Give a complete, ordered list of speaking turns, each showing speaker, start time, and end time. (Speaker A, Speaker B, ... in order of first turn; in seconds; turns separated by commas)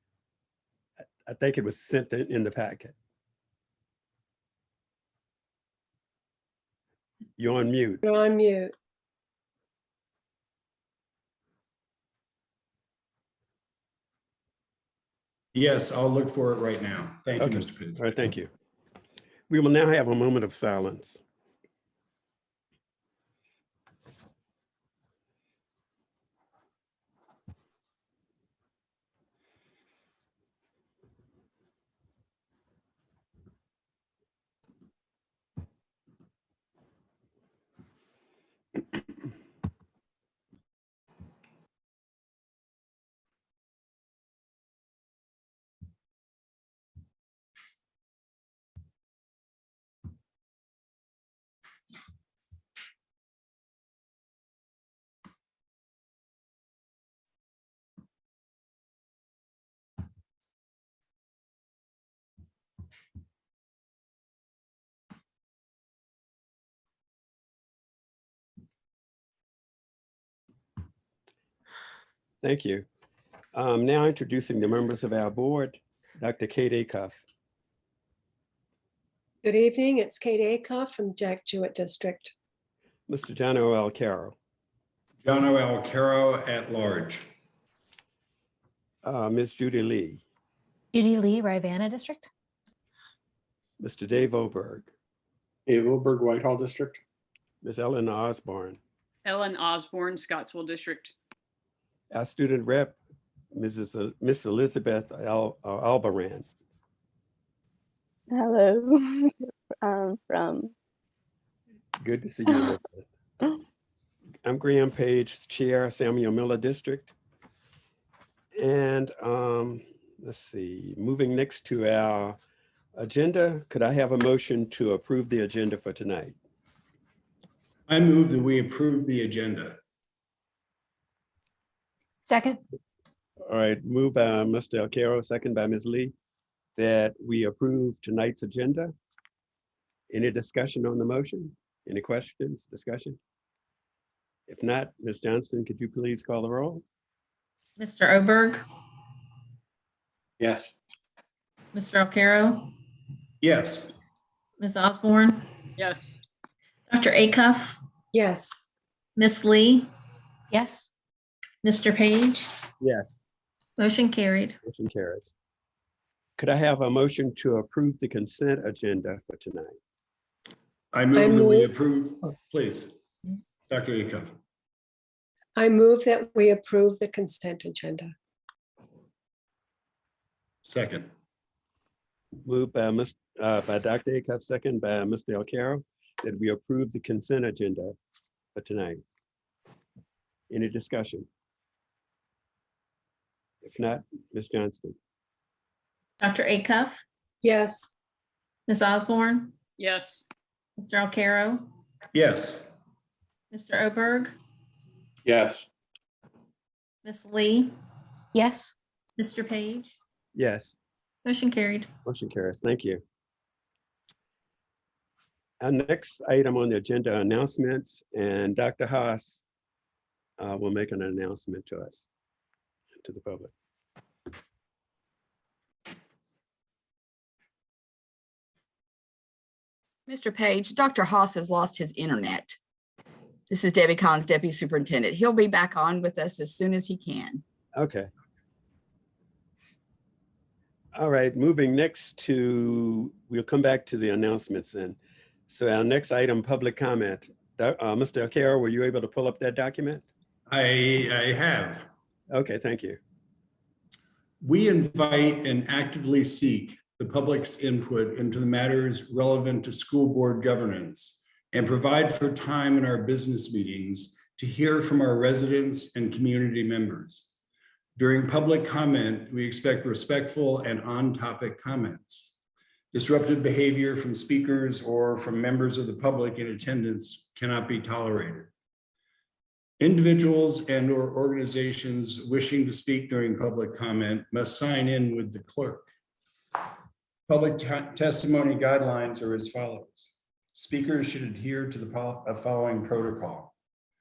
Speaker A: 1.2-2.9, Speaker A: 7.4-8.0, Speaker B: 8.0-8.7, Speaker C: 15.5-18.0, Speaker A: 17.4-18.5, Speaker A: 19.5-21.2, Speaker A: 72.4-72.9, Speaker A: 73.5-77.2, Speaker B: 79.4-82.3, Speaker A: 83.1-84.4, Speaker C: 85.2-87.2, Speaker A: 89.0-90.2, Speaker D: 90.9-92.3, Speaker A: 93.8-94.9, Speaker E: 95.7-97.0, Speaker A: 97.6-98.8, Speaker F: 99.2-101.1, Speaker A: 102.1-103.0, Speaker A: 103.5-106.5, Speaker G: 108.3-110.7, Speaker A: 112.0-113.1, Speaker A: 114.4-117.1, Speaker A: 118.6-122.4, Speaker A: 123.0-126.3, Speaker C: 127.9-129.8, Speaker D: 132.3-132.6, Speaker A: 133.5-136.1, Speaker A: 136.8-138.9, Speaker A: 140.1-143.2, Speaker A: 144.5-146.8, Speaker H: 147.8-148.6, Speaker E: 150.4-150.7, Speaker H: 151.7-152.7, Speaker C: 153.4-153.9, Speaker H: 154.6-155.5, Speaker F: 155.8-156.2, Speaker H: 156.9-157.8, Speaker B: 158.1-158.6, Speaker H: 159.2-159.9, Speaker D: 160.5-160.9, Speaker H: 161.6-162.6, Speaker A: 162.8-163.2, Speaker H: 163.8-164.6, Speaker A: 164.6-165.3, Speaker A: 166.4-169.8, Speaker C: 170.9-173.0, Speaker B: 171.2-171.7, Speaker C: 173.7-174.4, Speaker B: 175.6-178.1, Speaker C: 180.6-181.1, Speaker A: 182.4-188.0, Speaker A: 188.6-189.0, Speaker A: 190.5-191.3, Speaker A: 193.6-195.0, Speaker H: 196.2-197.0, Speaker B: 197.4-197.9, Speaker H: 198.7-199.6, Speaker F: 199.8-200.2, Speaker H: 200.8-201.7, Speaker C: 202.1-202.7, Speaker H: 203.5-204.4, Speaker E: 205.3-205.6, Speaker H: 207.1-207.7, Speaker D: 208.3-208.7, Speaker H: 209.2-210.0, Speaker A: 210.3-210.8, Speaker H: 211.2-211.9, Speaker A: 212.1-213.0, Speaker A: 215.6-219.4, Speaker A: 220.4-222.1, Speaker A: 223.0-223.5, Speaker I: 230.1-232.6, Speaker I: 233.5-237.4, Speaker A: 237.8-238.1, Speaker A: 240.9-245.0, Speaker A: 245.5-250.0, Speaker C: 250.5-251.9, Speaker A: 252.3-253.0, Speaker C: 254.4-267.3, Speaker C: 268.0-272.3, Speaker C: 272.9-278.5, Speaker C: 279.8-285.9, Speaker C: 287.3-293.5